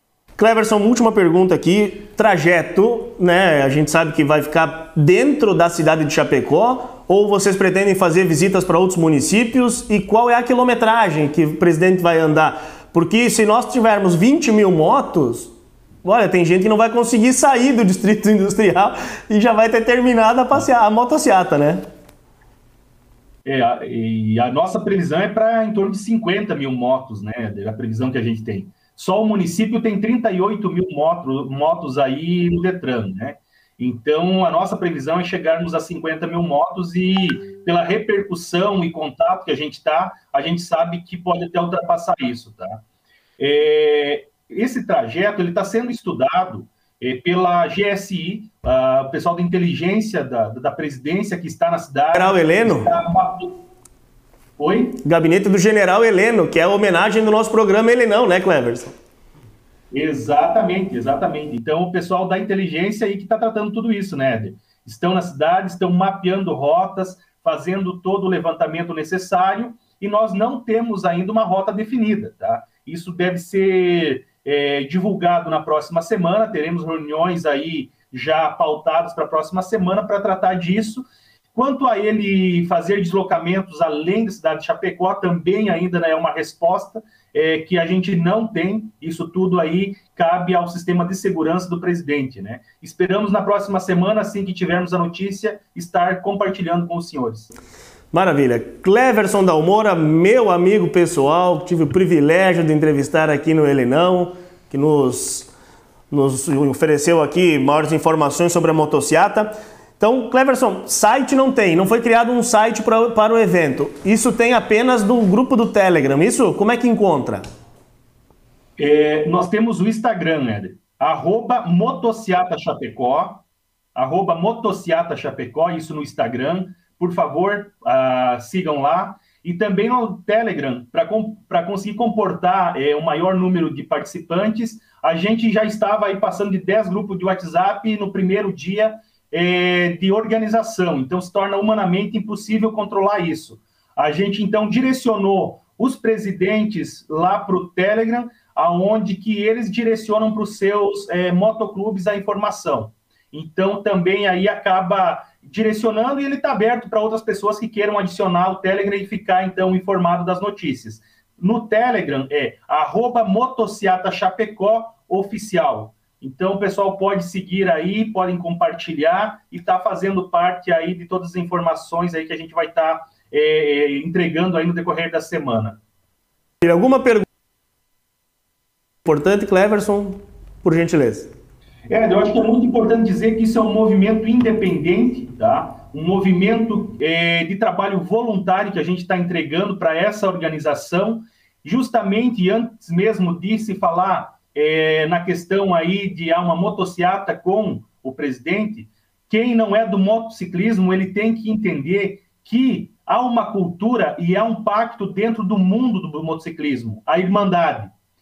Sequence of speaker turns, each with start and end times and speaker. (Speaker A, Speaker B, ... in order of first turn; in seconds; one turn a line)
Speaker A: 0.4-15.5
Speaker A: 16.0-21.8
Speaker B: 23.4-42.8
Speaker B: 43.4-53.5
Speaker A: 52.1-52.9
Speaker B: 54.6-55.0
Speaker A: 55.0-58.9
Speaker B: 59.9-97.5
Speaker A: 98.1-105.5
Speaker A: 106.1-117.4
Speaker B: 118.8-123.4
Speaker B: 123.9-175.8
Speaker A: 176.6-177.2
Speaker A: 179.0-181.3
Speaker B: 181.9-207.9